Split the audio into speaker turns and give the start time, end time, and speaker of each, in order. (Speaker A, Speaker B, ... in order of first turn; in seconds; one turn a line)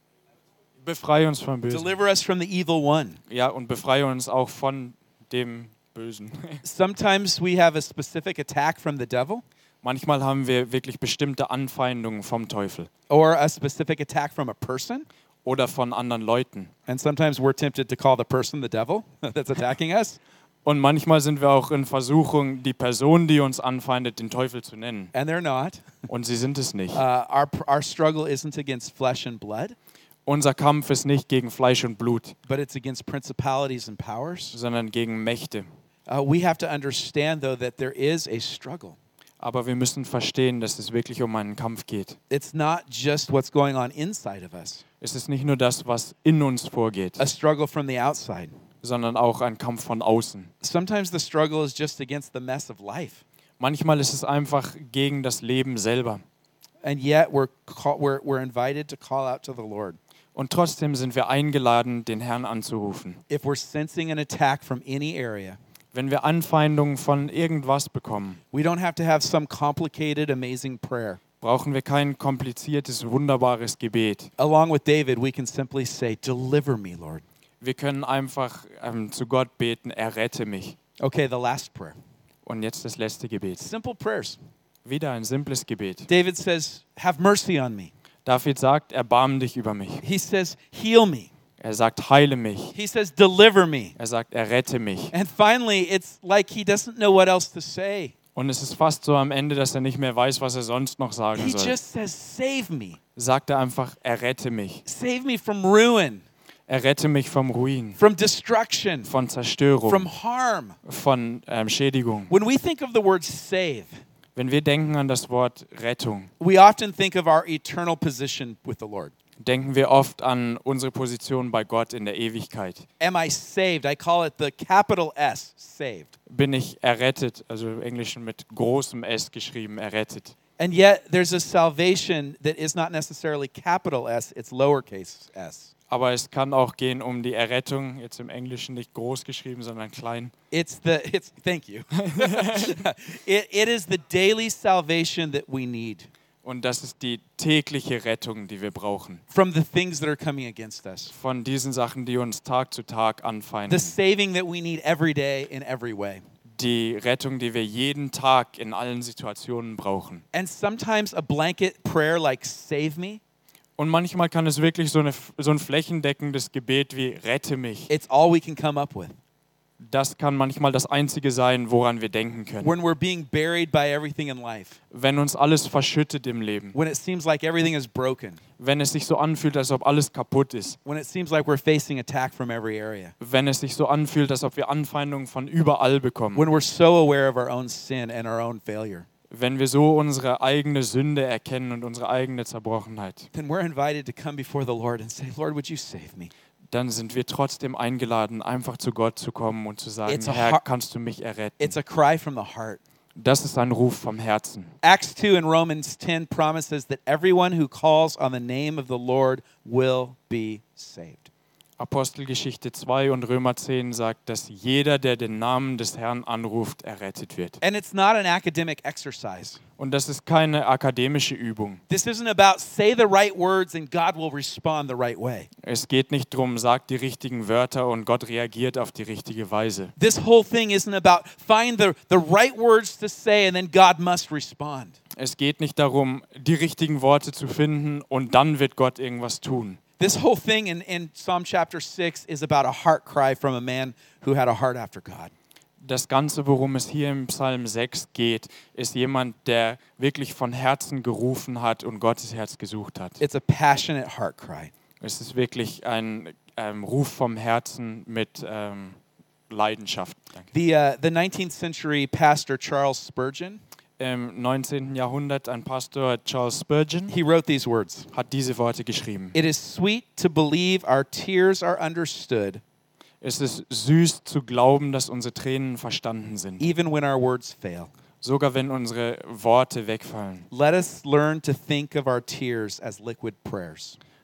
Speaker A: 0.8-2.0
Speaker B: 1.7-3.2
Speaker A: 3.3-6.6
Speaker B: 6.6-9.4
Speaker A: 9.8-12.9
Speaker B: 13.1-15.1
Speaker A: 15.4-16.7
Speaker B: 16.9-20.2
Speaker A: 20.6-25.1
Speaker B: 25.1-25.9
Speaker A: 26.1-27.0
Speaker B: 26.9-29.8
Speaker A: 30.3-32.4
Speaker B: 32.5-34.6
Speaker A: 34.5-35.7
Speaker B: 36.1-39.0
Speaker A: 39.4-42.2
Speaker B: 42.3-44.8
Speaker A: 45.0-47.2
Speaker B: 47.2-48.5
Speaker A: 48.8-50.5
Speaker B: 50.6-53.2
Speaker A: 53.6-56.2
Speaker B: 56.8-60.0
Speaker A: 60.4-63.2
Speaker B: 63.3-65.6
Speaker A: 65.9-68.4
Speaker B: 68.5-71.2
Speaker A: 71.4-74.3
Speaker B: 74.4-77.2
Speaker A: 77.6-80.8
Speaker B: 81.0-82.0
Speaker A: 82.5-83.7
Speaker B: 83.6-84.4
Speaker A: 84.8-86.1
Speaker B: 86.1-87.9
Speaker A: 88.2-90.0
Speaker B: 90.0-91.3
Speaker A: 91.6-92.7
Speaker B: 92.7-94.0
Speaker A: 94.0-95.1
Speaker B: 95.1-98.1
Speaker A: 98.3-101.8
Speaker B: 101.3-103.0
Speaker A: 103.2-104.8
Speaker B: 104.9-106.2
Speaker A: 106.7-108.0
Speaker B: 108.0-109.1
Speaker A: 109.0-110.1
Speaker B: 109.9-110.8
Speaker A: 110.8-112.3
Speaker B: 112.3-114.0
Speaker A: 114.4-116.3
Speaker B: 116.4-119.1
Speaker A: 119.4-122.9
Speaker B: 123.0-126.1
Speaker A: 126.3-130.3
Speaker B: 130.6-135.7
Speaker A: 135.9-140.3
Speaker B: 140.5-146.1
Speaker A: 142.0-142.8
Speaker A: 146.4-149.2
Speaker B: 149.3-151.1
Speaker A: 151.1-153.9
Speaker B: 153.7-156.2
Speaker A: 156.5-160.2
Speaker B: 160.3-163.2
Speaker A: 163.8-167.9
Speaker B: 167.9-169.2
Speaker A: 169.8-172.7
Speaker B: 172.6-174.8
Speaker A: 174.9-176.8
Speaker B: 176.7-178.4
Speaker A: 178.6-180.8
Speaker B: 180.8-183.1
Speaker A: 183.2-186.5
Speaker B: 186.3-189.1
Speaker A: 189.3-193.3
Speaker B: 193.3-196.3
Speaker A: 196.7-201.8
Speaker B: 200.1-200.6
Speaker B: 201.6-202.8
Speaker A: 203.2-204.7
Speaker B: 204.8-211.3
Speaker A: 211.8-217.6
Speaker B: 217.6-219.6
Speaker A: 219.8-221.8
Speaker B: 221.9-225.5
Speaker A: 225.6-229.9
Speaker B: 230.0-235.0
Speaker A: 235.2-239.8
Speaker B: 240.0-245.3
Speaker A: 245.8-253.2
Speaker B: 253.2-254.7
Speaker A: 255.0-259.0
Speaker A: 259.5-260.5
Speaker B: 260.5-263.6
Speaker A: 264.0-267.1
Speaker B: 267.1-268.1
Speaker A: 268.1-269.4
Speaker B: 269.3-272.6
Speaker A: 273.2-276.7
Speaker B: 276.6-277.9
Speaker A: 278.2-280.5
Speaker B: 280.5-284.0